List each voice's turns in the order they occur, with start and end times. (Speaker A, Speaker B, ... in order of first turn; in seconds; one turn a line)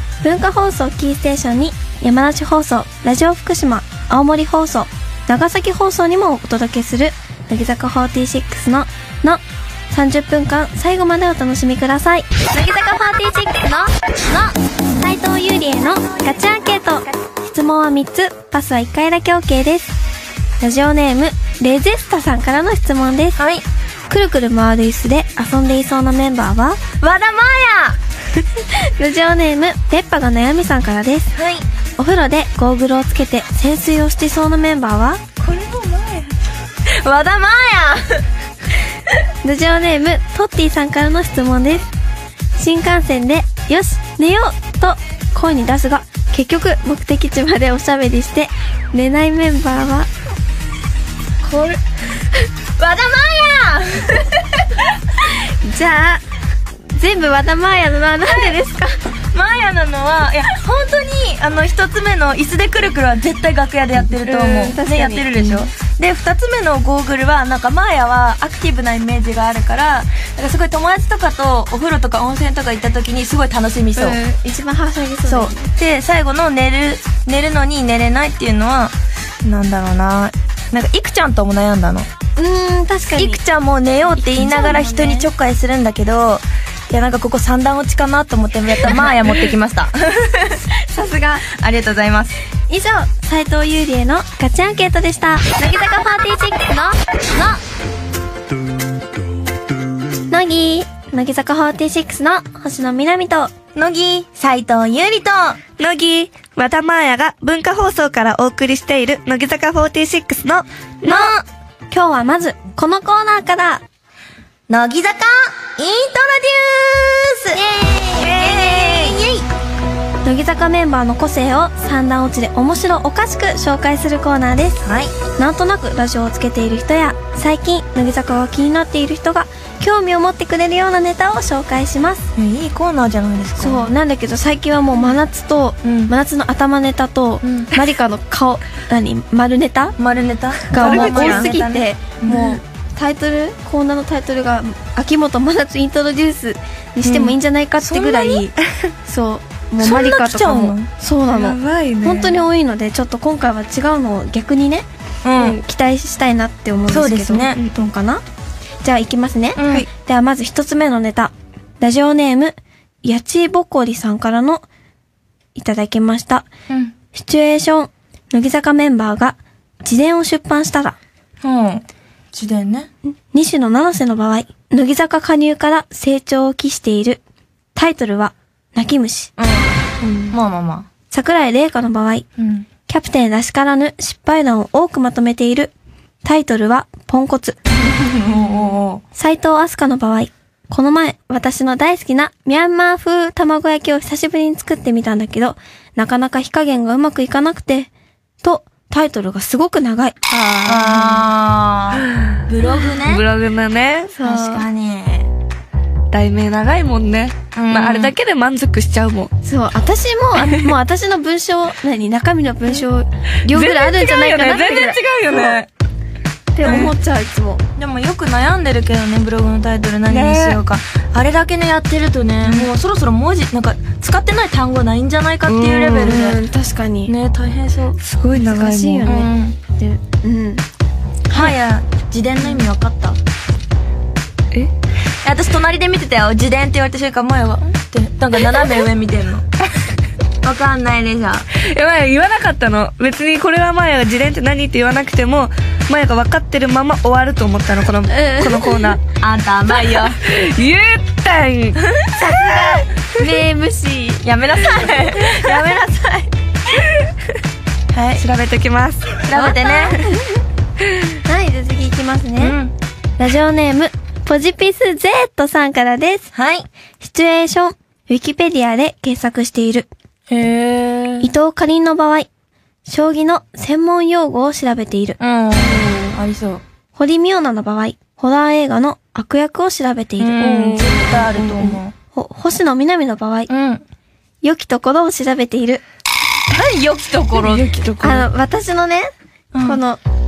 Speaker A: 0.2-20.0
Speaker A: 20.6-23.4
Speaker B: 23.4-23.6
Speaker A: 24.1-26.8
Speaker B: 27.0-28.0
Speaker A: 28.7-31.3
Speaker B: 31.3-31.6
Speaker A: 32.0-35.2
Speaker B: 35.4-38.2
Speaker A: 39.4-41.9
Speaker A: 42.5-50.1
Speaker B: 51.4-51.8
Speaker B: 52.8-55.0
Speaker A: 55.2-56.2
Speaker A: 56.9-59.0
Speaker B: 59.3-74.2
Speaker A: 64.2-65.7
Speaker A: 74.0-75.7
Speaker B: 75.2-82.1
Speaker A: 82.4-83.4
Speaker B: 83.1-90.7
Speaker A: 84.1-85.3
Speaker A: 90.8-91.5
Speaker B: 91.4-92.3
Speaker A: 92.7-97.6
Speaker A: 100.3-103.5
Speaker B: 103.7-105.6
Speaker C: 105.8-111.3
Speaker B: 111.0-111.4
Speaker A: 111.9-113.8
Speaker B: 114.7-117.6
Speaker A: 117.5-119.1
Speaker B: 118.1-119.4
Speaker C: 118.2-119.1
Speaker A: 120.2-124.8
Speaker B: 124.8-125.1
Speaker A: 125.4-132.3
Speaker B: 132.3-133.9
Speaker A: 133.6-139.9
Speaker B: 135.8-136.1
Speaker B: 137.4-137.7
Speaker B: 140.0-142.6
Speaker A: 140.7-148.5
Speaker C: 140.7-141.5
Speaker B: 147.0-148.5
Speaker A: 149.1-158.2
Speaker B: 149.8-150.9
Speaker C: 151.3-152.4
Speaker B: 155.2-155.6
Speaker B: 156.9-157.6
Speaker A: 158.8-164.7
Speaker B: 159.6-159.9
Speaker A: 165.5-166.5
Speaker B: 166.7-166.9
Speaker A: 167.1-171.0
Speaker B: 171.4-172.9
Speaker A: 173.3-177.2
Speaker A: 177.7-179.3
Speaker B: 179.4-180.9
Speaker C: 180.0-180.3
Speaker A: 181.1-182.2
Speaker B: 182.4-182.7
Speaker A: 182.9-187.6
Speaker B: 187.7-189.0
Speaker A: 189.2-197.9
Speaker A: 198.4-201.2
Speaker B: 200.6-203.2
Speaker C: 203.0-204.1
Speaker A: 204.1-204.6
Speaker B: 204.2-205.3
Speaker C: 206.1-209.3
Speaker B: 207.5-208.1
Speaker A: 209.4-215.6
Speaker C: 210.4-210.7
Speaker C: 213.5-215.7
Speaker A: 216.5-217.6
Speaker B: 216.6-216.9
Speaker C: 216.6-216.9
Speaker B: 217.8-226.4
Speaker C: 220.1-220.6
Speaker C: 225.4-226.2
Speaker A: 226.0-227.1
Speaker B: 227.1-228.0
Speaker C: 228.0-229.1
Speaker A: 228.3-230.6
Speaker B: 229.1-229.6
Speaker B: 231.3-233.2
Speaker B: 235.2-239.4
Speaker B: 240.4-241.5
Speaker C: 241.5-249.0
Speaker A: 248.1-249.0
Speaker B: 249.2-250.2
Speaker C: 250.2-251.8
Speaker B: 251.8-252.8
Speaker A: 252.2-254.2
Speaker B: 254.2-256.3
Speaker C: 256.8-257.1
Speaker B: 257.9-258.2
Speaker C: 258.2-259.2
Speaker B: 259.2-260.0
Speaker A: 259.3-260.4
Speaker A: 261.2-262.6
Speaker B: 262.4-262.7
Speaker A: 263.2-266.3
Speaker B: 266.3-266.7
Speaker A: 267.0-269.9
Speaker B: 270.3-271.3
Speaker A: 271.2-272.3
Speaker A: 272.9-275.9
Speaker B: 275.2-276.6
Speaker A: 276.9-283.5
Speaker B: 280.2-281.9
Speaker C: 280.4-281.8
Speaker B: 283.5-283.8
Speaker A: 284.4-285.8
Speaker B: 286.5-287.7
Speaker C: 287.3-288.3
Speaker A: 288.0-289.1
Speaker B: 289.5-289.8
Speaker A: 289.6-290.0